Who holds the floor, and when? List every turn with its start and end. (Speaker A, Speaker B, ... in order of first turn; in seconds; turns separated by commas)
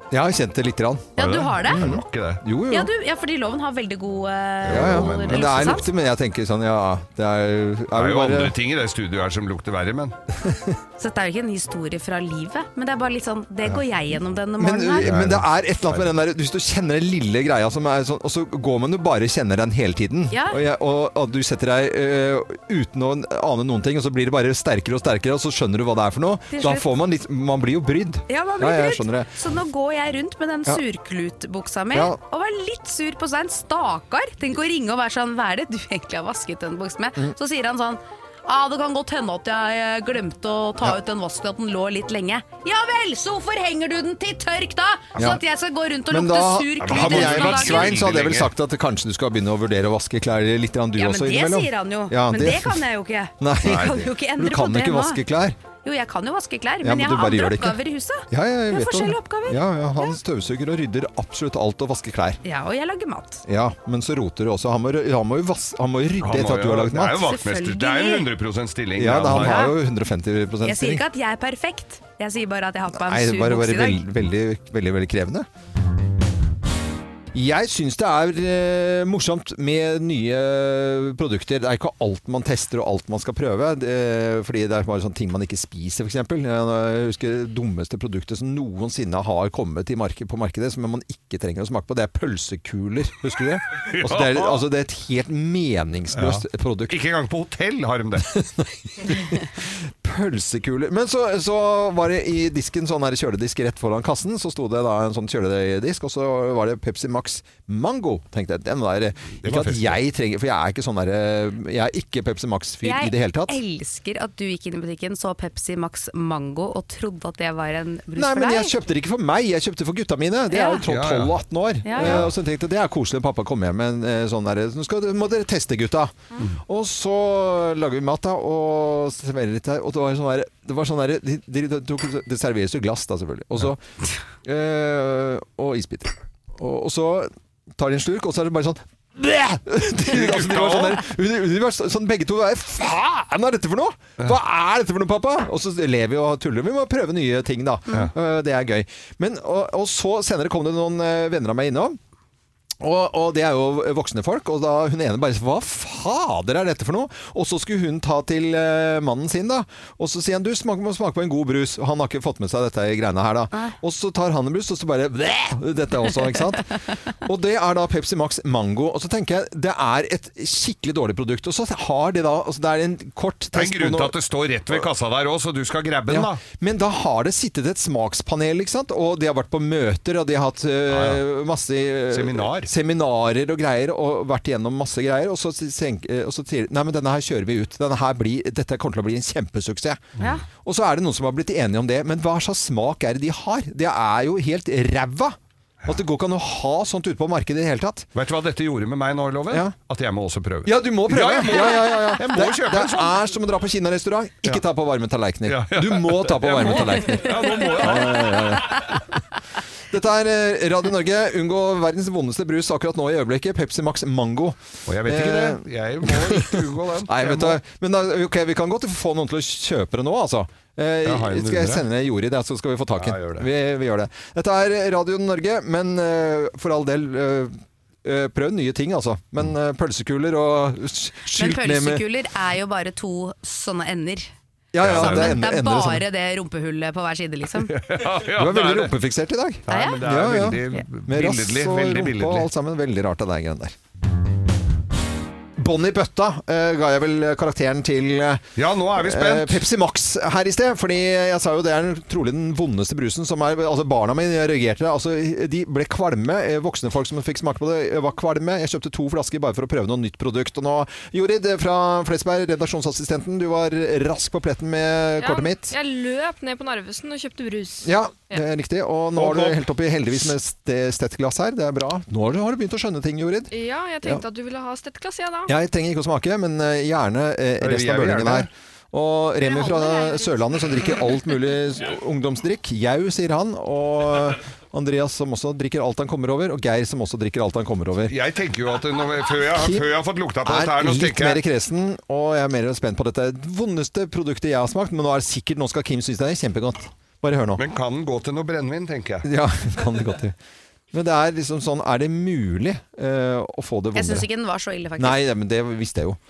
Speaker A: 0.1-2.9, Speaker B: 1.2-1.8, Speaker C: 1.2-2.4, Speaker B: 2.7-5.9, Speaker C: 4.6-5.8, Speaker A: 4.7-8.5, Speaker C: 7.9-10.2, Speaker A: 10.4-10.7, Speaker B: 11.0-15.1, Speaker A: 14.6-29.3, Speaker C: 15.0-16.1, Speaker B: 20.3-20.6, Speaker B: 26.5-26.9, Speaker B: 28.3-48.0, Speaker A: 46.1-52.8, Speaker C: 46.8-48.5, Speaker B: 51.0-55.2, Speaker A: 53.4-55.6, Speaker C: 53.6-54.0, Speaker B: 55.8-60.2, Speaker A: 56.8-62.4, Speaker B: 62.4-63.5, Speaker A: 63.5-67.2, Speaker C: 66.2-69.7, Speaker B: 67.2-68.3, Speaker A: 69.0-71.0, Speaker B: 69.3-69.7, Speaker B: 70.6-74.0, Speaker A: 72.9-75.5, Speaker A: 77.3-97.0, Speaker C: 93.9-94.7, Speaker C: 96.1-98.4, Speaker A: 99.0-113.6, Speaker C: 109.4-110.0, Speaker B: 112.8-118.7, Speaker A: 118.1-133.8, Speaker B: 120.5-120.8, Speaker C: 120.9-121.4, Speaker B: 121.8-122.2, Speaker C: 122.0-122.3, Speaker A: 134.4-152.0, Speaker C: 140.1-141.0, Speaker A: 152.8-174.2, Speaker B: 163.5-163.8, Speaker C: 173.5-176.4, Speaker A: 176.1-190.0, Speaker C: 180.9-181.2, Speaker C: 182.1-182.7, Speaker A: 190.6-198.1, Speaker C: 198.2-203.2, Speaker A: 200.7-208.9, Speaker C: 205.5-208.4, Speaker B: 207.6-208.0, Speaker A: 209.9-232.1, Speaker C: 214.9-217.6, Speaker C: 221.1-221.8, Speaker C: 223.0-223.5, Speaker B: 231.3-234.3, Speaker A: 234.7-236.1, Speaker C: 234.8-235.4, Speaker B: 234.9-237.8, Speaker C: 237.7-238.9, Speaker A: 238.3-243.8, Speaker C: 239.7-242.5, Speaker B: 239.7-240.0, Speaker A: 245.6-248.4, Speaker C: 248.6-249.6, Speaker A: 248.9-265.8, Speaker D: 265.2-268.4, Speaker A: 267.8-274.2, Speaker C: 269.2-269.6, Speaker D: 273.5-275.5, Speaker A: 275.5-288.1, Speaker C: 277.6-278.5, Speaker B: 279.4-280.4, Speaker C: 288.1-291.4, Speaker A: 289.5-289.9, Speaker A: 290.4-297.6, Speaker C: 297.6-299.3, Speaker A: 299.2-300.4, Speaker A: 300.9-304.3, Speaker B: 303.9-305.2, Speaker A: 305.0-306.2